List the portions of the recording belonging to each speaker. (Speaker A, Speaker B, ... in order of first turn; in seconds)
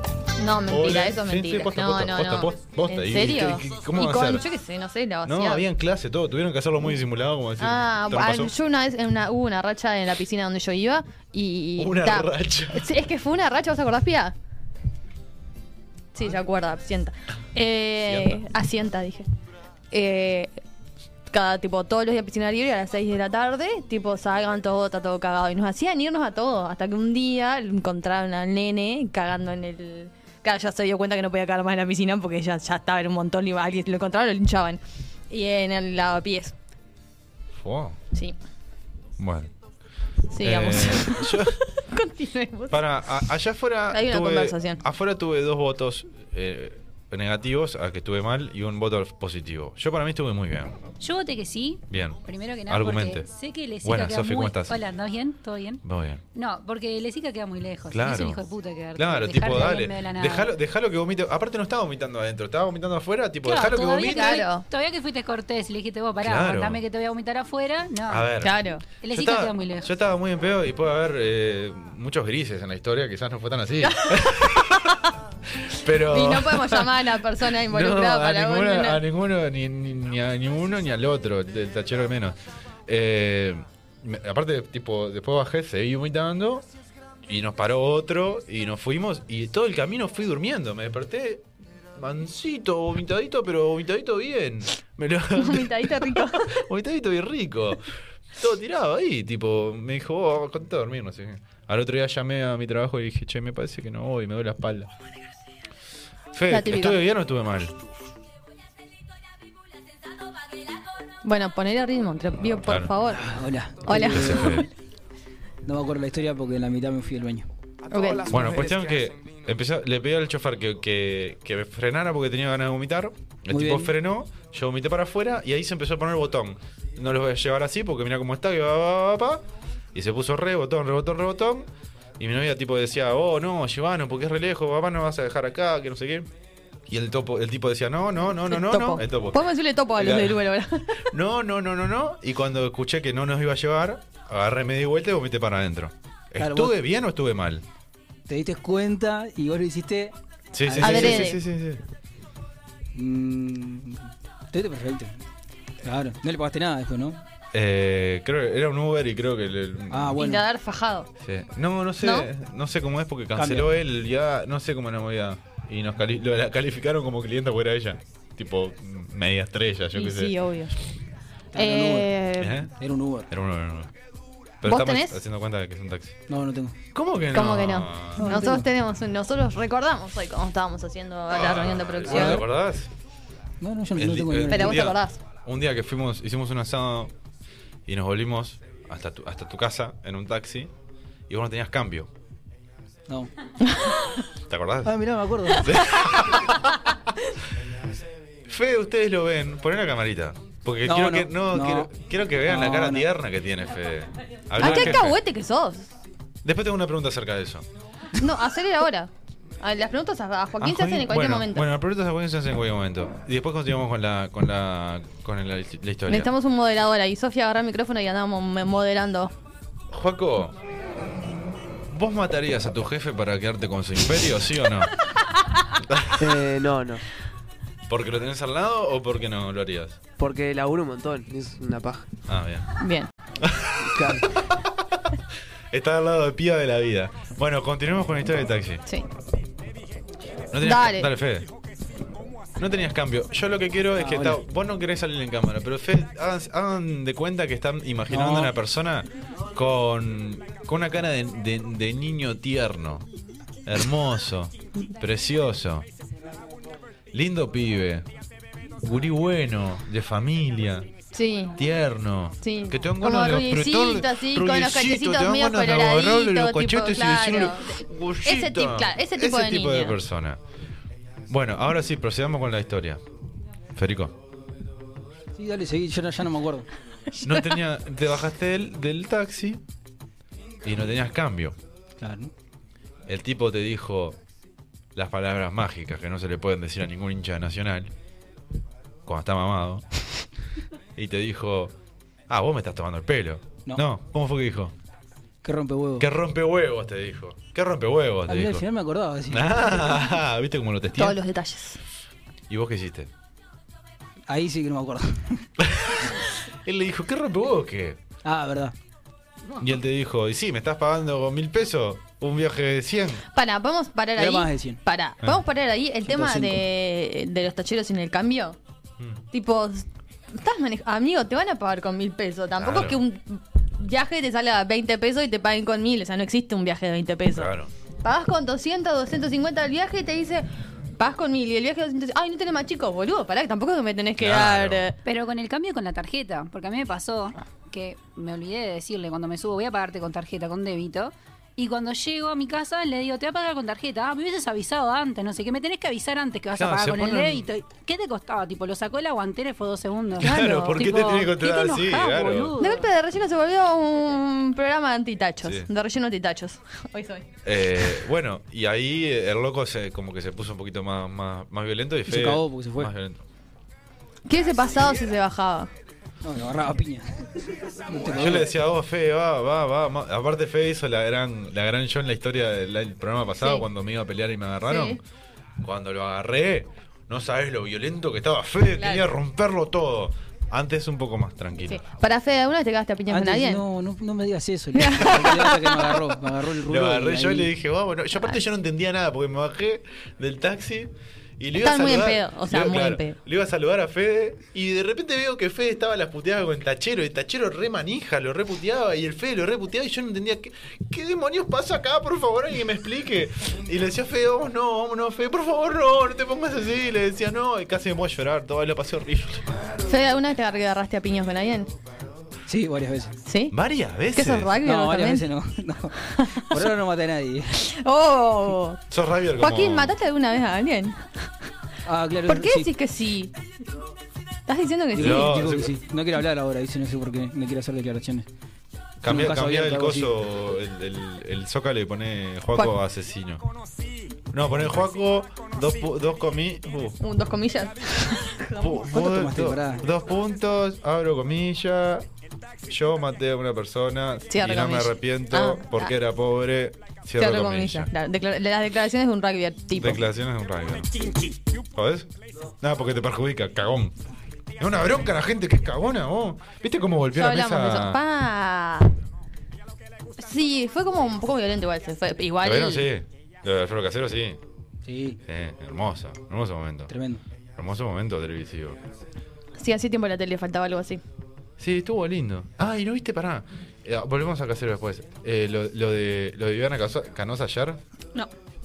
Speaker A: 0.4-5.6, 7.6-14.3, 16.1-19.2, 19.9-20.5, 21.3-36.5, 40.3-42.9, 43.9-44.8, 64.1-64.6, 68.4-68.8, 73.8-74.3, 76.0-79.0, 95.3-96.5, 106.5-107.0, 111.2-113.3, 113.8-114.7, 117.9-118.3, 138.5-141.0, 150.8-151.4, 160.2-161.1, 162.0-162.3, 169.9-170.7, 171.5-172.6, 174.6-175.2, 177.3-182.4, 184.5-185.2, 193.6-194.2, 204.6-205.9, 208.2-211.7, 216.1-219.3, 232.8-233.1, 240.6-241.1, 261.1-261.6, 262.4-270.0, 277.1-277.5, 300.9-301.8, 313.3-318.6, 319.3-327.5, 328.0-330.5, 331.0-335.0, 350.2-351.2, 352.6-357.3, 364.2-365.7, 373.4-373.6, 374.6-375.0, 378.8-379.1, 381.6-383.6, 384.8-385.9, 391.6-393.2, 409.9-411.7, 413.2-413.6, 414.1-415.3, 416.1-416.6, 417.6-418.8, 419.4-421.0, 422.2-423.3, 424.5-425.4, 437.0-438.9, 444.3-445.9, 447.2-450.0, 457.1-458.9, 460.2-462.9, 469.6-471.0
Speaker B: 0.7-4.5, 5.2-8.5, 11.8-12.9, 18.1-18.4, 37.5-38.0, 39.2-39.5, 40.4-41.5, 42.7-50.7, 51.9-53.3, 53.8-54.8, 55.8-56.2, 57.9-58.4, 58.9-64.5, 66.2-66.8, 68.1-68.5, 69.1-75.0, 75.6-86.7, 87.2-104.9, 106.3-107.7, 112.7-112.9, 114.0-114.7, 118.3-131.7, 132.2-136.3, 136.9-139.4, 139.9-140.4, 141.1-147.6, 150.5-151.8, 157.5-160.2, 161.2-170.3, 172.4-172.7, 173.3-173.9, 174.6-176.2, 176.9-178.3, 181.3-182.9, 183.9-187.1, 187.9-190.7, 191.3-192.1, 194.4-194.9, 195.6-196.5, 198.5-205.2, 206.4-207.7, 210.6-216.3, 219.9-220.6, 221.9-224.9, 225.8-226.2, 227.9-230.0, 232.3-232.7, 233.4-234.2, 235.7-238.8, 240.5-241.5, 242.6-253.1, 253.6-255.9, 257.1-258.1, 258.8-260.9, 261.6-270.4, 271.3-273.0, 273.7-274.1, 277.2-279.6, 280.6-281.6, 283.1-284.2, 284.9-287.9, 289.1-289.8, 290.9-291.7, 292.3-294.7, 296.0-298.7, 299.3-301.2, 302.5-303.1, 305.6-306.1, 306.6-308.0, 309.6-313.2, 322.6-323.0, 327.3-327.7, 334.2-334.9, 346.5-347.5, 350.2-352.5, 355.4-355.7, 357.4-363.2, 368.1-375.0, 375.6-381.8, 386.6-409.5, 413.5-414.5, 418.9-419.9, 425.0-425.7, 429.0-433.4, 434.3-436.9, 438.6-442.1, 442.7-447.9, 449.8-450.9, 451.7-453.9, 454.6-458.0, 462.4-464.4, 465.2-466.9, 467.6-468.8, 471.6-477.8
Speaker C: 51.0-55.8, 56.3-60.5, 63.4-68.3, 69.0-69.9, 335.0-352.9
Speaker D: 113.2-114.6, 115.6-117.5, 118.3-118.8, 123.5-123.9, 146.4-146.8, 148.3-151.3, 152.9-155.2, 155.8-157.2, 159.9-160.4, 163.3-163.7, 171.5-172.1, 172.8-173.3, 176.3-176.7, 178.2-178.7, 182.1-182.4, 183.6-184.9, 194.8-195.7, 200.8-201.9, 202.4-203.1, 204.6-205.0, 243.9-244.4, 248.1-248.5, 275.4-276.7, 282.0-282.3, 295.4-296.1, 298.3-299.5, 304.3-305.4, 308.2-308.7, 314.1-314.8, 316.1-316.6, 362.1-362.9, 366.2-367.3, 367.9-368.5, 383.1-387.5, 412.5-413.1, 414.6-417.5, 421.9-422.7, 424.9-428.2, 429.0-430.1, 438.9-439.8, 464.9-465.2, 466.9-467.2
Speaker E: 226.2-227.0, 230.2-232.1, 233.9-234.3